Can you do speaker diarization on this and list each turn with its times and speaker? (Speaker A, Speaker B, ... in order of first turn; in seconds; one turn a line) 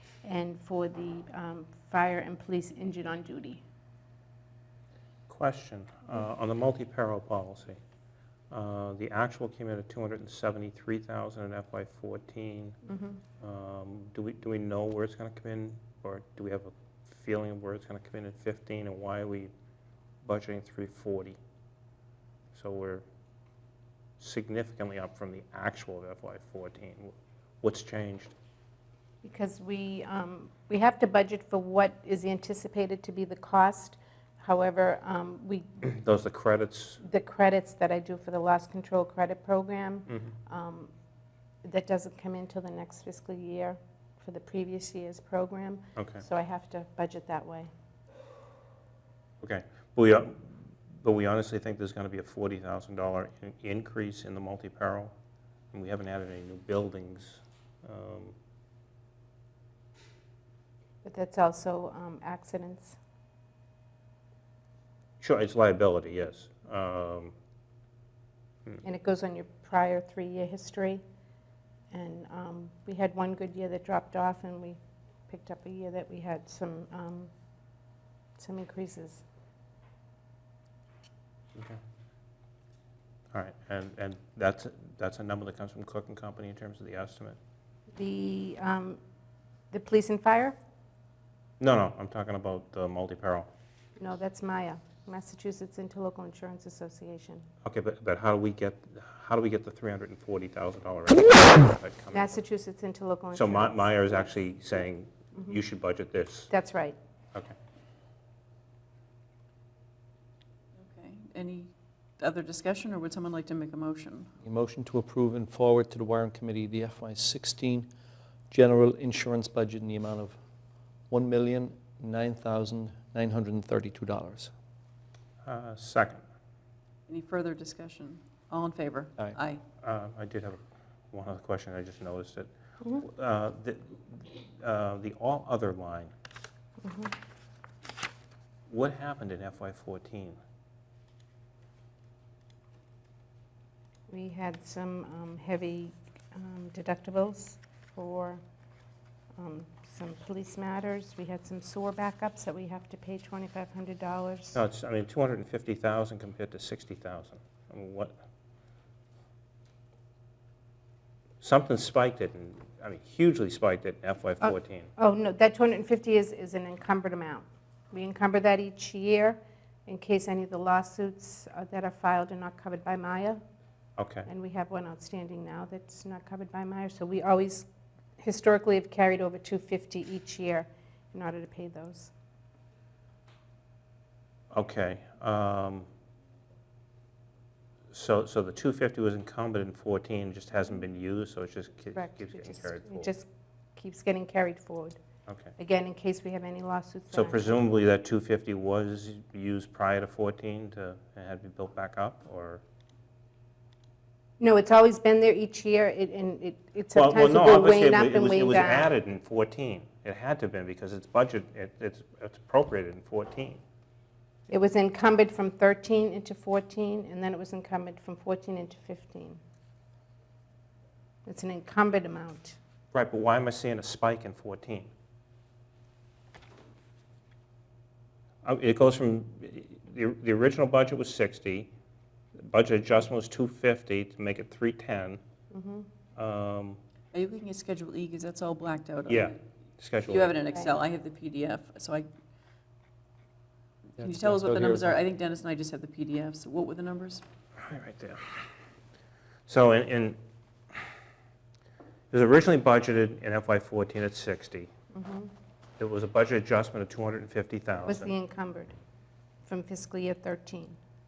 Speaker A: 0.2-3.6
Speaker B: 5.3-7.8
Speaker B: 8.5-12.8
Speaker A: 12.9-13.2
Speaker B: 13.4-19.5
Speaker B: 20.2-21.4
Speaker B: 22.5-23.0
Speaker B: 24.2-28.3
Speaker A: 29.2-35.8
Speaker B: 35.8-37.0
Speaker A: 37.0-40.9
Speaker A: 41.6-47.7
Speaker B: 46.0-46.2
Speaker B: 49.4-55.1
Speaker B: 55.7-58.4
Speaker A: 61.0-63.0
Speaker B: 65.2-67.3
Speaker A: 68.8-71.0
Speaker A: 71.9-77.3
Speaker A: 78.4-79.2
Speaker B: 83.3-87.4
Speaker A: 88.0-89.0
Speaker A: 89.7-90.5
Speaker B: 91.6-93.5
Speaker A: 94.0-97.5
Speaker B: 97.6-102.4
Speaker A: 102.1-103.9
Speaker B: 103.3-106.5
Speaker A: 106.5-107.0
Speaker C: 110.8-114.3
Speaker D: 114.4-117.9
Speaker D: 118.5-120.4
Speaker D: 121.1-124.5
Speaker B: 125.4-126.2
Speaker C: 127.1-129.6
Speaker B: 129.8-136.1
Speaker A: 136.8-137.1
Speaker B: 138.7-140.4
Speaker A: 144.1-148.4
Speaker A: 149.4-154.6
Speaker B: 154.6-158.2
Speaker B: 161.4-164.9
Speaker A: 164.4-173.4
Speaker B: 174.0-174.3
Speaker A: 174.3-177.7
Speaker A: 178.2-182.1
Speaker B: 184.5-185.9
Speaker B: 187.9-193.1
Speaker A: 191.9-195.0
Speaker B: 195.3-195.5
Speaker A: 195.6-197.6
Speaker B: 197.1-202.6
Speaker A: 204.4-208.9
Speaker B: 206.9-213.6
Speaker A: 214.5-219.4
Speaker A: 221.3-222.6
Speaker B: 222.9-224.9
Speaker B: 228.4-231.7
Speaker B: 232.4-235.2
Speaker A: 235.5-235.9
Speaker B: 236.2-236.8
Speaker C: 237.1-239.4
Speaker B: 239.1-240.4
Speaker C: 240.1-242.1
Speaker C: 244.0-247.2
Speaker D: 244.0-245.0
Speaker B: 247.6-248.5
Speaker B: 249.5-250.2
Speaker B: 252.1-254.7
Speaker A: 254.9-255.3
Speaker B: 255.8-258.1
Speaker A: 257.8-258.7
Speaker A: 259.5-260.8